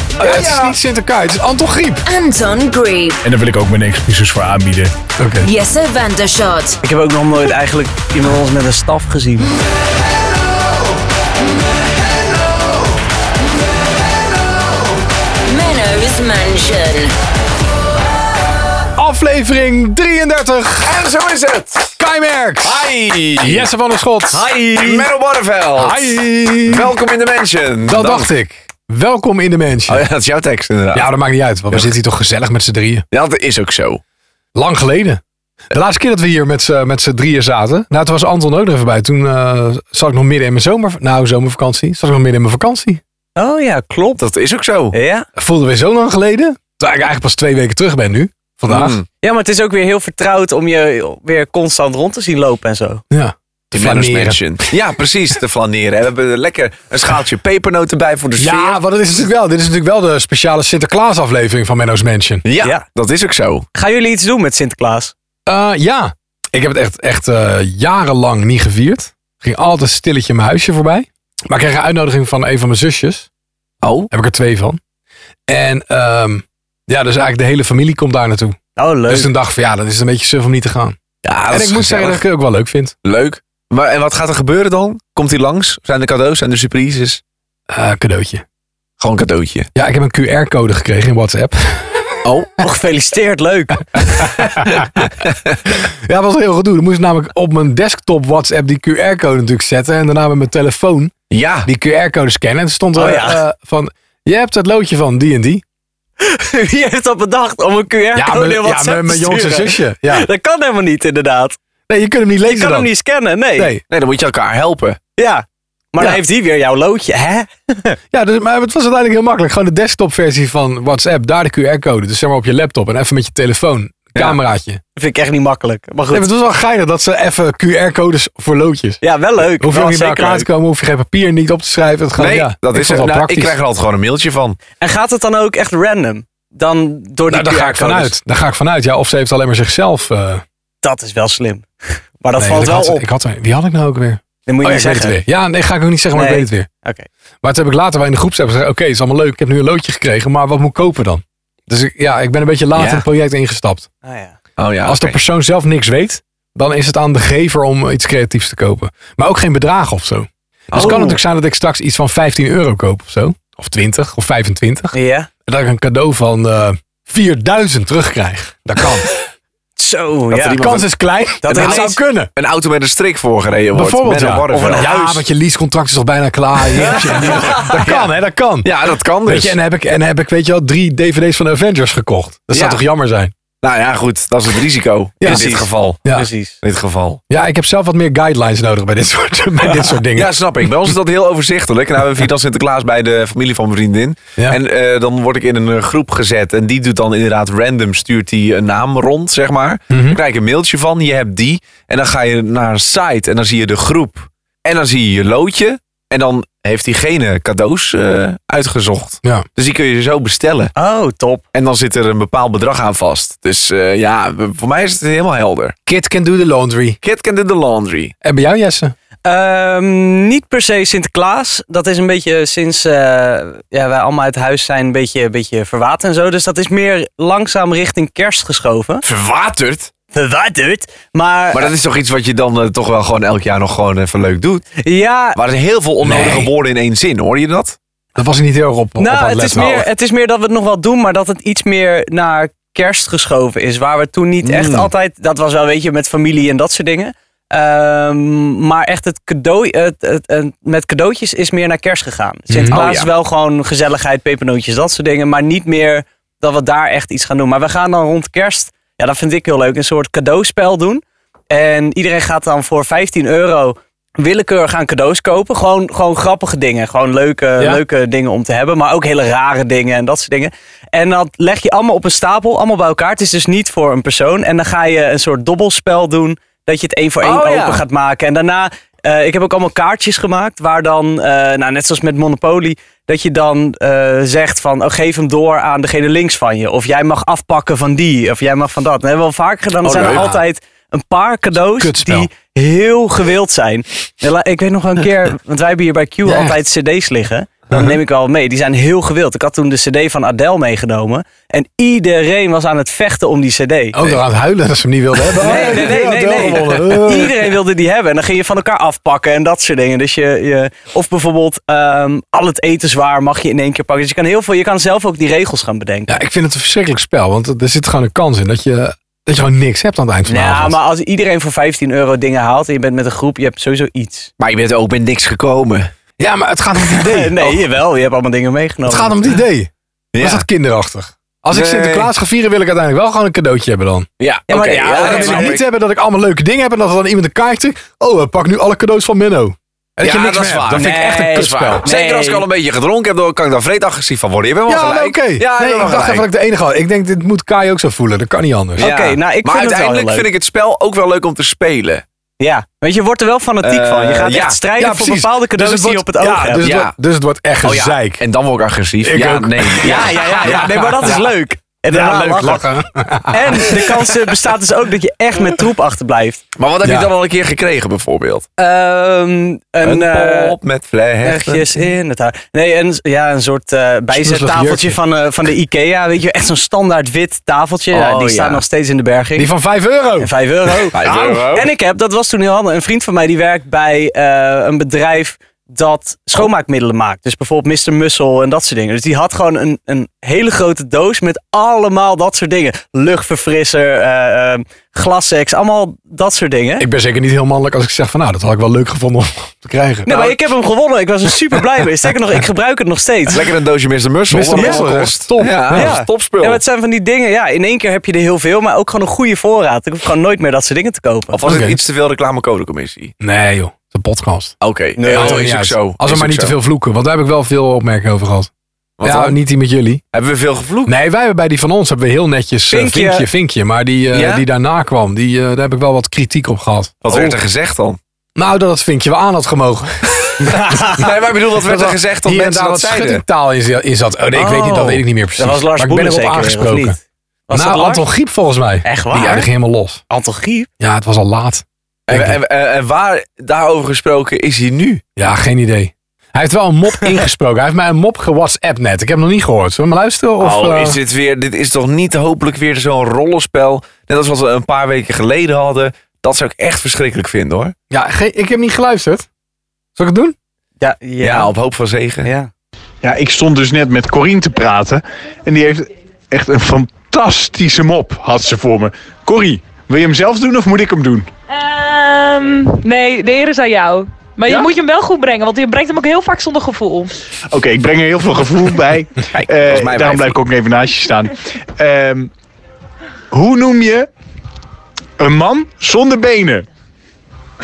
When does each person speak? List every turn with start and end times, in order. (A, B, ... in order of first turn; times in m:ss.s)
0:00.2-0:02.0 A
0:00.2-0:00.5 B
0:02.0-0:03.2 C
0:03.2-0:04.9 D
0:05.2-0:05.5 A
0:05.4-0:06.8 C
0:06.8-0:09.5 E
0:15.5-0:17.1 C
0:18.9-0:21.1 A
0:20.8-0:22.0 B
0:22.0-0:24.5 A
0:22.6-0:23.7 B
0:24.3-0:25.1 E
0:24.7-0:28.3 B
0:25.8-0:26.9 A
0:27.9-0:30.1 A
0:29.9-0:31.1 B
0:30.9-0:33.0 A
0:33.1-0:34.0 B
0:34.5-0:43.0 A
0:43.4-0:44.2 E
0:44.2-0:45.0 B
0:44.9-0:45.2 E
0:45.4-0:49.0 A
0:48.7-0:49.0 B
0:49.2-0:53.0 E
0:53.1-0:54.4 A
0:53.7-0:58.8 B
0:58.4-1:02.4 A
1:02.4-1:03.6 B
1:03.7-1:05.1 E
1:05.5-1:13.3 A
1:13.8-1:14.1 B
1:14.1-1:14.8 A
1:15.5-1:18.6 A
1:18.8-1:19.3 E
1:19.1-1:21.0 A
1:21.2-1:22.2 B
1:21.5-1:22.9 A
1:23.0-1:27.2 B
1:27.7-1:28.4 A
1:29.0-1:29.7 B
1:29.7-1:32.2 A
1:32.2-1:32.5 B
1:32.6-1:34.0 E
1:34.2-1:35.5 B
1:35.7-1:41.1 A
1:41.3-1:41.7 B
1:41.6-1:45.6 A
1:43.0-1:43.4 E
1:46.2-1:51.6 E
1:48.1-1:50.3 A
1:51.9-1:52.9 A
1:52.4-1:53.7 E
1:53.6-1:53.8 A
1:53.9-1:55.0 B
1:55.2-1:58.0 E
1:58.1-2:04.8 A
2:05.0-2:06.3 E
2:06.1-2:13.5 A
2:09.0-2:10.5 E
2:12.2-2:14.6 B
2:14.8-2:18.1 E
2:17.3-2:20.4 A
2:20.8-2:23.0 E
2:22.4-2:26.7 A
2:24.4-2:25.2 E
2:26.1-2:27.1 E
2:27.4-2:33.9 A
2:32.8-2:33.0 B
2:34.0-2:34.3 E
2:34.6-2:35.2 B
2:34.8-2:44.9 A
2:40.7-2:41.2 B
2:40.8-2:41.1 E
2:44.9-2:45.3 E
2:45.4-2:49.1 A
2:49.8-2:50.6 E
2:50.3-2:50.9 B
2:50.4-2:52.3 A
2:51.4-2:52.0 E
2:51.5-2:54.9 B
2:53.7-2:58.7 A
2:54.5-2:55.2 E
2:56.9-2:58.1 B
2:58.6-2:59.6 B
2:59.2-3:03.3 A
3:02.5-3:02.8 B
3:03.6-3:06.0 B
3:05.2-3:06.3 A
3:05.3-3:06.5 E
3:06.6-3:07.2 B
3:07.3-3:10.3 A
3:10.1-3:30.7 B
3:19.9-3:20.2 A
3:30.8-3:31.4 E
3:31.5-3:35.7 B
3:35.9-3:37.0 A
3:37.0-3:38.1 B
3:38.2-3:38.9 A
3:39.2-3:49.0 E
3:49.0-3:49.9 B
3:50.1-3:51.7 E
3:51.5-3:54.6 B
3:54.8-3:55.4 E
3:55.4-3:57.8 B
3:56.0-3:56.5 A
3:58.1-3:59.9 A
3:59.0-5:04.1 E
4:04.4-4:04.9 B
4:12.5-4:12.8 A
4:12.7-4:13.1 B
4:37.2-4:37.8 B
4:49.8-4:50.2 B
4:50.0-4:50.4 A
4:51.6-4:52.3 A
4:56.2-4:56.6 A
5:03.9-5:07.5 A
5:05.4-5:16.2 E
5:16.1-5:20.8 A
5:20.2-5:24.3 E
5:24.4-5:25.9 B
5:26.2-5:27.6 A
5:27.0-5:29.3 E
5:28.9-5:34.1 A
5:30.1-5:30.4 B
5:31.5-5:32.1 B
5:34.2-5:35.6 B
5:34.5-5:35.5 E
5:35.0-5:41.8 A
5:40.0-5:46.3 B
5:40.7-5:42.4 E
5:44.7-5:48.9 A
5:48.8-5:52.0 B
5:48.8-5:50.3 E
5:52.4-5:56.7 E
5:53.6-5:54.6 B
5:54.8-5:58.2 A
5:56.6-5:56.9 B
5:57.6-6:01.2 B
5:59.0-6:01.1 A
5:59.8-6:02.6 E
6:01.9-6:03.9 A
6:03.3-6:06.4 E
6:06.6-6:08.4 B
6:06.8-6:07.1 A
6:08.6-6:10.6 E
6:09.8-6:11.6 B
6:11.2-6:19.5 E
6:14.1-6:15.0 A
6:17.9-6:18.6 B
6:19.4-6:20.3 A
6:20.2-6:36.9 E
6:20.8-6:21.2 A
6:20.9-6:21.7 B
6:36.8-6:40.1 A
6:40.0-6:43.4 E
6:43.3-6:46.6 B
6:44.3-6:46.0 A
6:44.5-6:44.8 E
6:45.7-6:51.4 E
6:51.3-6:53.1 B
6:51.4-6:51.8 A
6:53.2-6:54.5 A
6:54.6-6:56.6 B
6:55.0-6:55.5 E
6:55.1-6:58.5 A
6:59.0-6:59.4 B
6:59.0-7:00.0 A
7:00.1-7:01.0 B
7:00.8-7:07.1 A
7:02.7-7:03.3 E
7:04.1-7:04.4 B
7:07.0-7:08.0 B
7:08.4-7:10.8 A
7:10.4-7:11.0 E
7:10.8-7:13.2 B
7:11.6-7:17.0 A
7:14.3-7:17.0 E
7:17.5-7:18.0 E
7:17.5-7:20.0 A
7:18.8-7:19.5 E
7:20.1-7:20.7 E
7:20.8-7:22.4 A
7:22.1-7:25.0 B
7:25.2-7:31.0 A
7:30.4-7:37.7 B
7:37.9-7:39.2 A
7:40.0-7:40.3 A
7:40.8-7:41.5 E
7:41.2-7:42.3 B
7:42.2-7:42.5 E
7:43.0-7:51.3 D
7:51.5-7:57.1 F
7:57.5-8:02.3 D
7:59.3-8:00.4 B
8:03.3-8:04.1 D
8:05.2-8:06.6 D